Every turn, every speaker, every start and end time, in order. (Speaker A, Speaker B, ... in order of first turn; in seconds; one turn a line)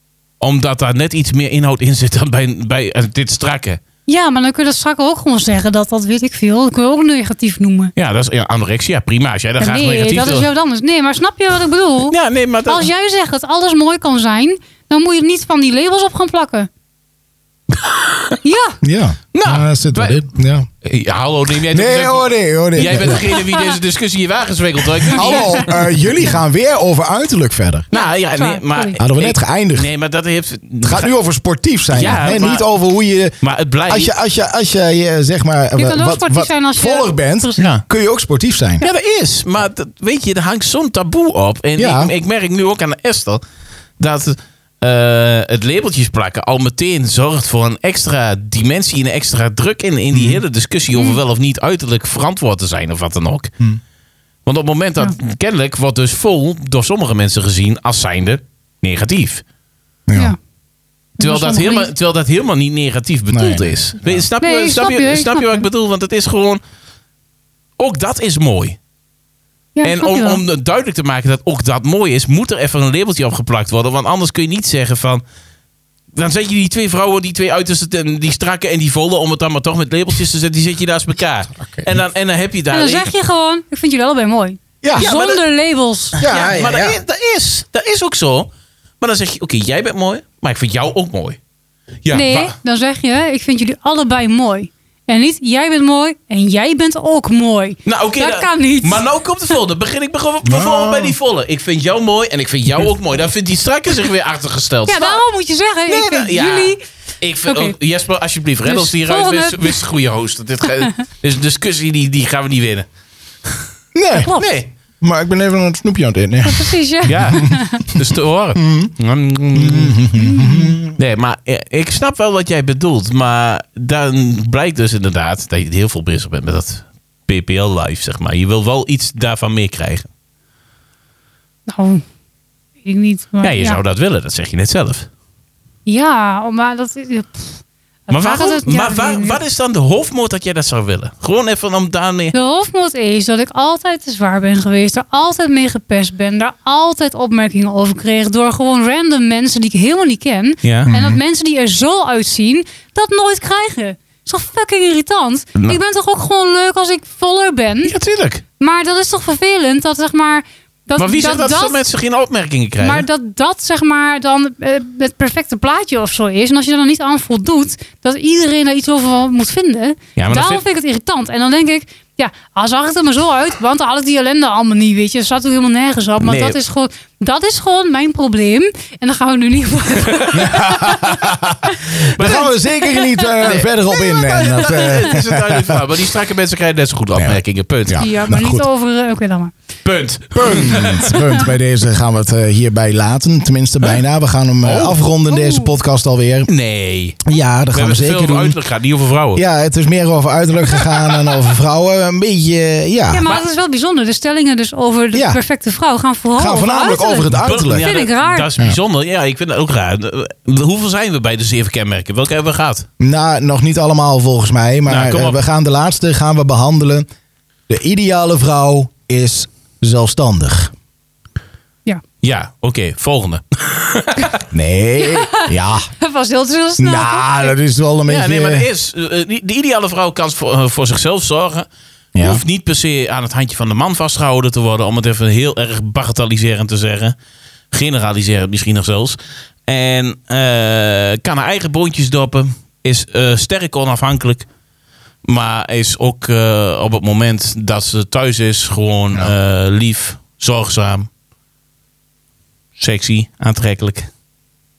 Speaker A: 0.4-3.8
Speaker B: 4.1-7.9
Speaker A: 8.0-10.5
Speaker B: 9.6-16.7
Speaker A: 12.1-12.9
Speaker A: 17.7-18.4
Speaker B: 18.4-18.8
Speaker C: 18.8-20.7
Speaker A: 19.3-20.2
Speaker A: 20.8-25.7
Speaker C: 21.7-23.3
Speaker B: 22.8-23.8
Speaker C: 25.1-27.9
Speaker B: 25.1-25.6
Speaker B: 27.9-29.0
Speaker A: 27.9-31.1
Speaker C: 29.0-29.9
Speaker C: 30.9-33.4
Speaker A: 31.9-32.7
Speaker A: 33.4-34.1
Speaker C: 33.9-38.9
Speaker B: 35.8-37.6
Speaker A: 37.6-37.8
Speaker A: 38.8-43.4
Speaker C: 41.8-42.1
Speaker A: 44.0-53.5
Speaker C: 50.1-50.4
Speaker B: 50.9-51.2
Speaker A: 54.5-59.4
Speaker C: 60.1-60.3
Speaker B: 61.2-61.9
Speaker A: 61.2-66.6
Speaker C: 63.3-64.3
Speaker B: 64.4-65.7
Speaker A: 67.8-68.8
Speaker B: 69.8-70.4
Speaker A: 69.8-75.2
Speaker A: 76.1-83.1
Speaker B: 82.7-86.3
Speaker C: 84.8-85.1
Speaker A: 85.0-85.4
Speaker C: 86.2-87.0
Speaker A: 86.2-88.5
Speaker A: 89.0-91.4
Speaker A: 92.0-92.5
Speaker B: 92.1-99.0
Speaker A: 97.9-105.2
Speaker C: 100.4-101.2
Speaker B: 104.9-106.8
Speaker A: 105.9-112.9
Speaker B: 107.5-107.7
Speaker B: 108.7-109.8
Speaker C: 114.0-114.4
Speaker B: 114.1-114.5
Speaker A: 114.3-114.7
Speaker C: 115.0-118.0
Speaker B: 116.4-117.9
Speaker A: 117.1-120.0
Speaker C: 118.6-118.9
Speaker C: 119.5-120.9
Speaker B: 120.2-120.8
Speaker A: 120.9-130.1
Speaker B: 131.7-132.0
Speaker B: 132.8-133.8
Speaker A: 133.4-135.1
Speaker B: 135.9-139.4
Speaker A: 138.1-142.3
Speaker B: 142.3-157.9
Speaker A: 150.6-150.9
Speaker C: 150.9-151.2
Speaker A: 157.8-158.4
Speaker B: 158.6-161.8
Speaker A: 161.0-163.1
Speaker B: 162.8-185.1
Speaker A: 170.2-170.6
Speaker A: 176.2-176.6
Speaker A: 180.0-180.5
Speaker C: 180.3-185.8
Speaker A: 181.9-182.6
Speaker A: 183.4-188.0
Speaker C: 187.2-188.7
Speaker B: 187.9-189.5
Speaker A: 189.8-191.3
Speaker C: 190.3-196.5
Speaker A: 194.6-195.0
Speaker B: 195.3-195.7
Speaker A: 196.5-197.2
Speaker C: 197.2-198.6
Speaker A: 197.7-199.4
Speaker C: 199.3-203.3
Speaker B: 203.1-208.5
Speaker C: 205.1-205.4
Speaker C: 206.4-207.9
Speaker A: 207.4-212.9
Speaker C: 213.0-217.1
Speaker A: 214.9-215.4
Speaker C: 217.7-220.7
Speaker A: 222.2-224.4
Speaker C: 224.5-225.9
Speaker B: 225.0-227.6
Speaker C: 226.8-228.7
Speaker A: 228.1-231.7
Speaker C: 232.2-232.4
Speaker A: 232.2-237.2
Speaker A: 237.7-244.5
Speaker A: 245.2-251.1
Speaker A: 252.8-254.1